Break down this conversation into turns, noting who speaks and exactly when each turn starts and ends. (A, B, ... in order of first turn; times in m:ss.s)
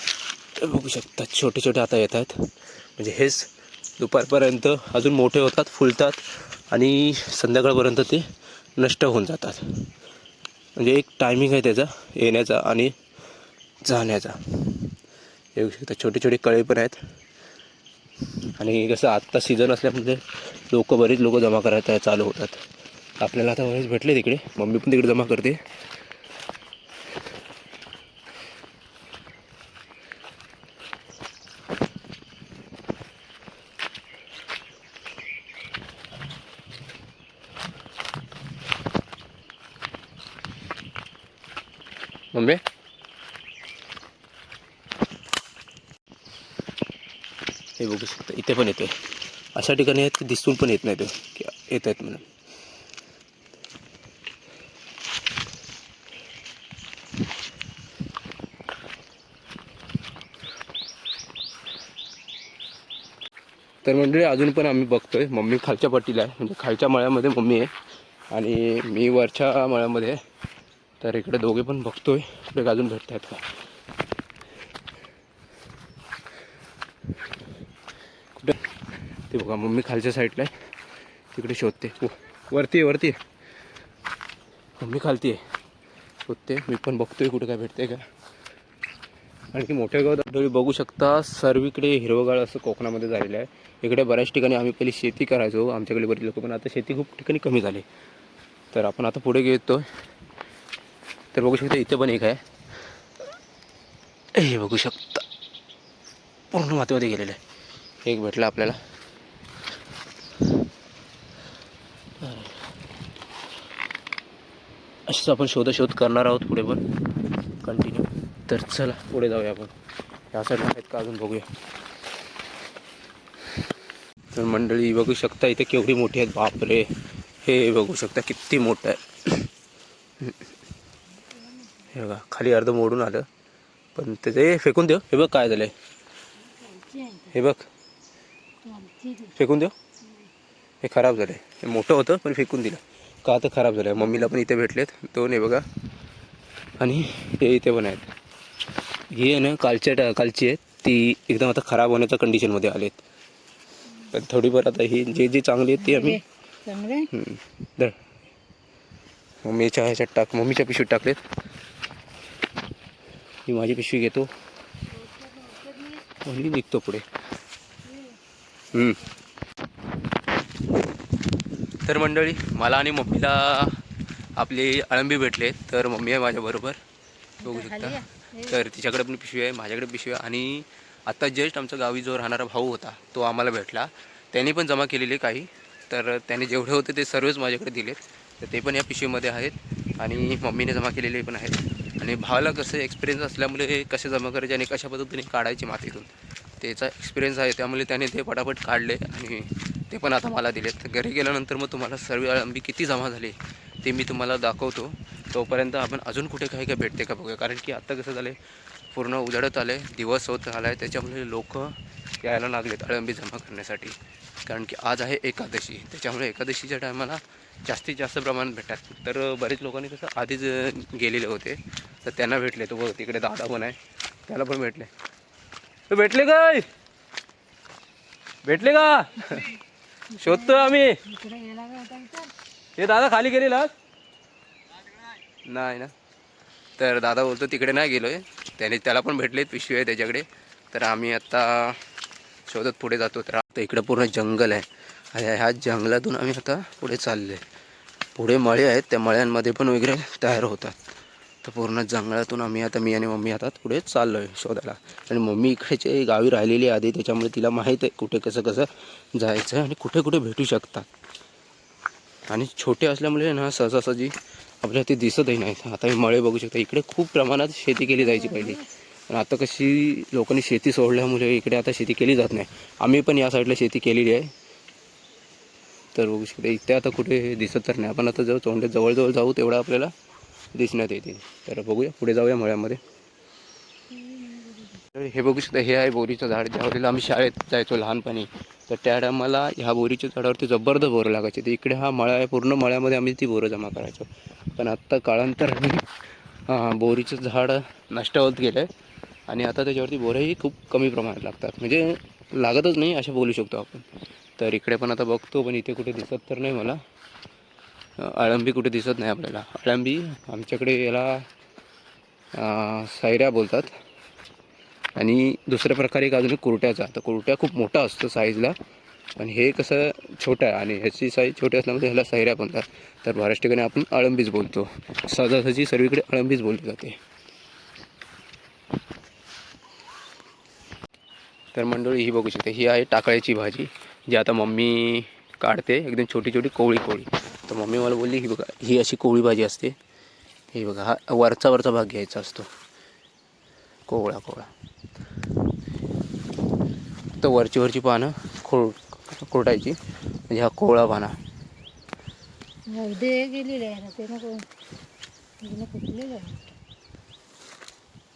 0:00.6-0:09.9 A
0:10.8-0:13.0 A
0:13.8-0:14.9 A
0:15.6-0:17.0 A
0:18.6-0:22.6 A
0:23.2-0:25.6 A
0:42.3-0:42.6 A
0:47.8-0:49.0 A
0:49.5-0:52.3 A
1:03.8-1:07.7 A
1:08.3-1:10.2 A
1:11.0-1:13.5 A
1:19.3-1:20.5 A
1:21.3-1:23.2 A
1:24.8-1:25.4 A
1:26.3-1:28.1 A
1:29.5-1:37.9 A
1:38.7-1:39.8 A
1:41.3-1:42.4 A
1:44.3-1:45.2 A
1:46.5-1:47.4 A
1:48.0-1:48.8 A
1:52.2-1:52.6 A
1:55.1-1:56.8 A
1:57.6-1:59.7 A
2:00.3-2:01.5 A
2:04.3-2:06.9 A
2:07.4-2:09.5 A
2:11.4-2:11.8 B
2:11.9-2:13.3 A
2:14.0-2:15.7 A
2:16.4-2:17.3 B
2:17.3-2:17.7 A
2:18.6-2:19.4 B
2:19.3-2:19.7 A
2:20.8-2:25.7 A
2:24.0-2:24.3 B
2:26.8-2:28.1 A
2:29.1-2:33.0 A
2:34.1-2:36.2 A
2:35.8-2:37.1 B
2:37.1-2:38.0 A
2:39.4-2:41.2 A
2:43.5-2:44.3 A
2:44.9-2:46.1 B
2:46.2-2:47.1 A
2:47.8-2:48.2 B
2:48.7-2:49.0 A
2:51.8-2:53.8 A
2:54.4-2:56.8 A
2:57.4-2:58.6 B
2:57.4-3:28.4 A
3:28.9-3:44.9 A
3:45.9-3:46.7 A
3:48.4-3:49.6 A
3:50.1-3:52.3 B
3:50.2-3:51.0 A
3:52.8-3:53.7 A
3:55.4-3:55.9 A
3:56.8-4:01.8 A
4:02.5-4:07.4 A
4:08.2-4:10.8 A
4:11.4-4:20.9 A
4:22.3-4:34.3 A
4:28.0-4:28.6 B
4:35.9-4:39.9 A
4:40.5-4:42.8 A
4:43.9-4:44.8 B
4:45.0-4:55.9 A
4:56.5-4:58.7 A
4:59.3-5:03.9 A
5:04.4-5:06.8 A
5:08.0-5:11.3 A
5:12.4-5:13.8 A
5:15.0-5:18.6 A
5:19.2-5:27.0 A
5:31.5-5:39.8 A
5:40.5-5:42.5 A
5:43.9-5:44.5 A
5:47.2-5:49.8 A
5:50.3-5:51.2 A
5:52.7-5:54.5 B
5:55.4-5:56.6 B